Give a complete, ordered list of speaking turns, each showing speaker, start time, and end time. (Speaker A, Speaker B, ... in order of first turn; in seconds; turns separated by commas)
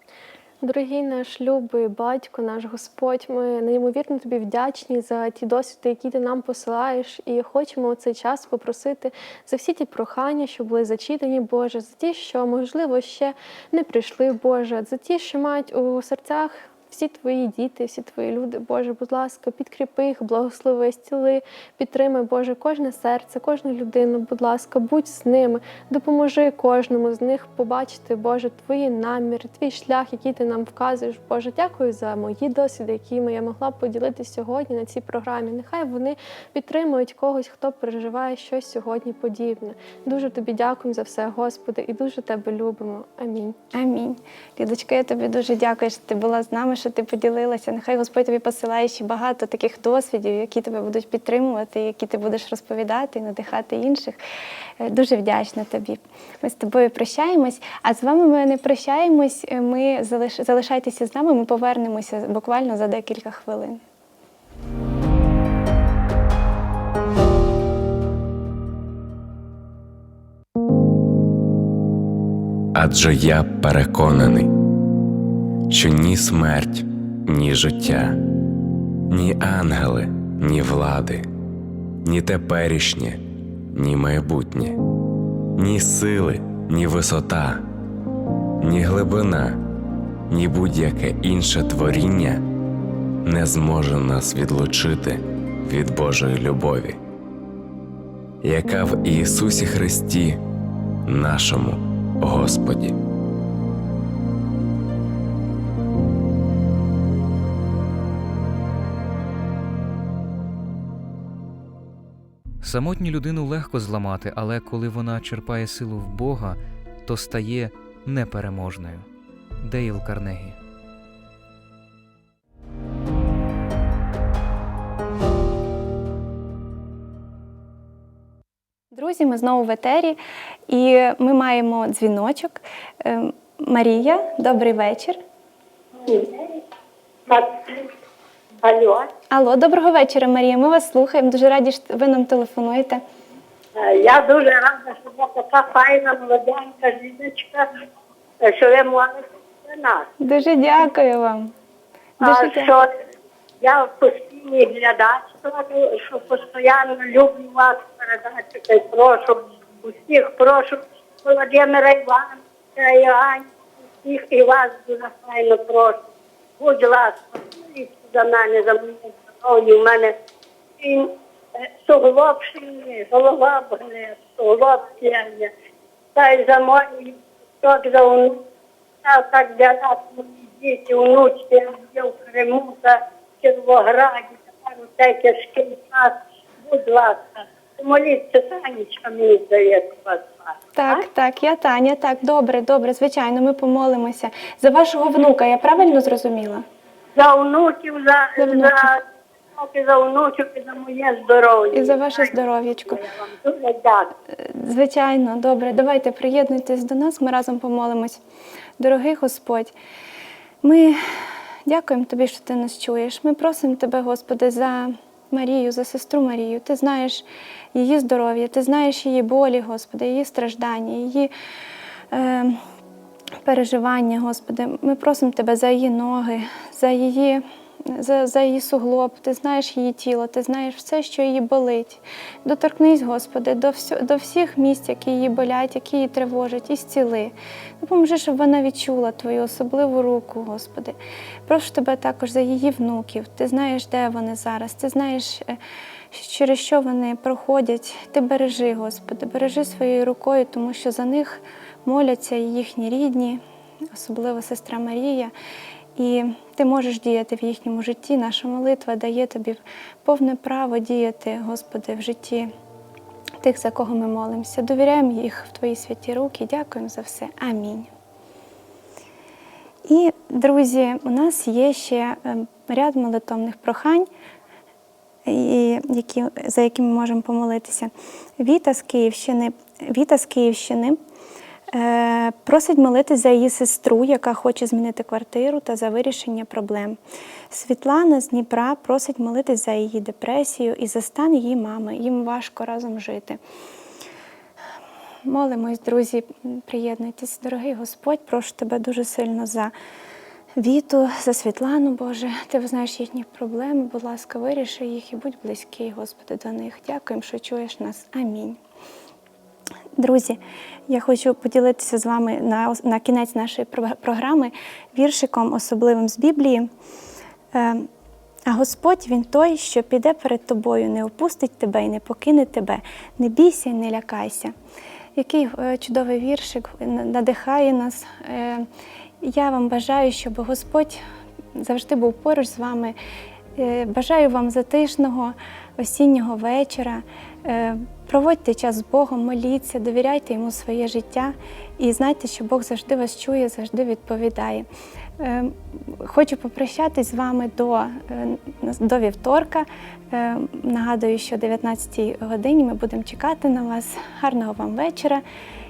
Speaker A: 0.6-43.6, Speaker B: 43.7-54.2, Speaker B: 54.8-63.8, Speaker C: 72.7-74.5, Speaker C: 75.7-78.2, Speaker C: 79.1-81.3, Speaker C: 82.0-83.2, Speaker C: 83.7-84.8, Speaker C: 85.6-87.6, Speaker C: 88.6-89.6, Speaker C: 90.3-92.4, Speaker C: 93.2-97.0, Speaker C: 98.4-100.4, Speaker C: 101.1-103.0, Speaker D: 112.6-119.1, Speaker D: 119.6-120.6, Speaker B: 128.9-135.2, Speaker E: 136.0-136.6, Speaker E: 137.3-137.9, Speaker E: 138.6-139.1, Speaker B: 139.3-143.0, Speaker E: 143.8-147.8, Speaker E: 148.4-150.1, Speaker B: 150.2-151.5, Speaker B: 152.2-152.7, Speaker E: 152.2-152.9, Speaker E: 153.6-166.1, Speaker E: 166.6-170.2, Speaker E: 170.8-171.1, Speaker E: 171.8-175.5, Speaker E: 176.2-178.4, Speaker E: 179.0-191.0, Speaker B: 190.8-196.7, Speaker E: 197.2-199.0, Speaker B: 198.4-198.9, Speaker E: 199.6-204.1, Speaker B: 201.7-203.1, Speaker B: 204.3-208.2, Speaker B: 208.8-209.8, Speaker B: 210.6-211.0, Speaker B: 211.7-221.3, Speaker B: 222.1-222.6, Speaker B: 223.4-245.6, Speaker B: 246.1-255.3, Speaker B: 256.0-262.5, Speaker B: 263.4-267.9, Speaker B: 269.9-274.1, Speaker B: 275.2-281.0, Speaker B: 281.7-287.0, Speaker B: 287.5-293.4, Speaker B: 295.2-299.7, Speaker B: 300.6-308.6, Speaker B: 310.0-316.7, Speaker B: 317.5-317.9, Speaker B: 318.5-324.5, Speaker B: 325.2-328.7, Speaker B: 329.2-331.0, Speaker B: 331.6-333.0, Speaker B: 333.6-344.7, Speaker B: 345.2-355.2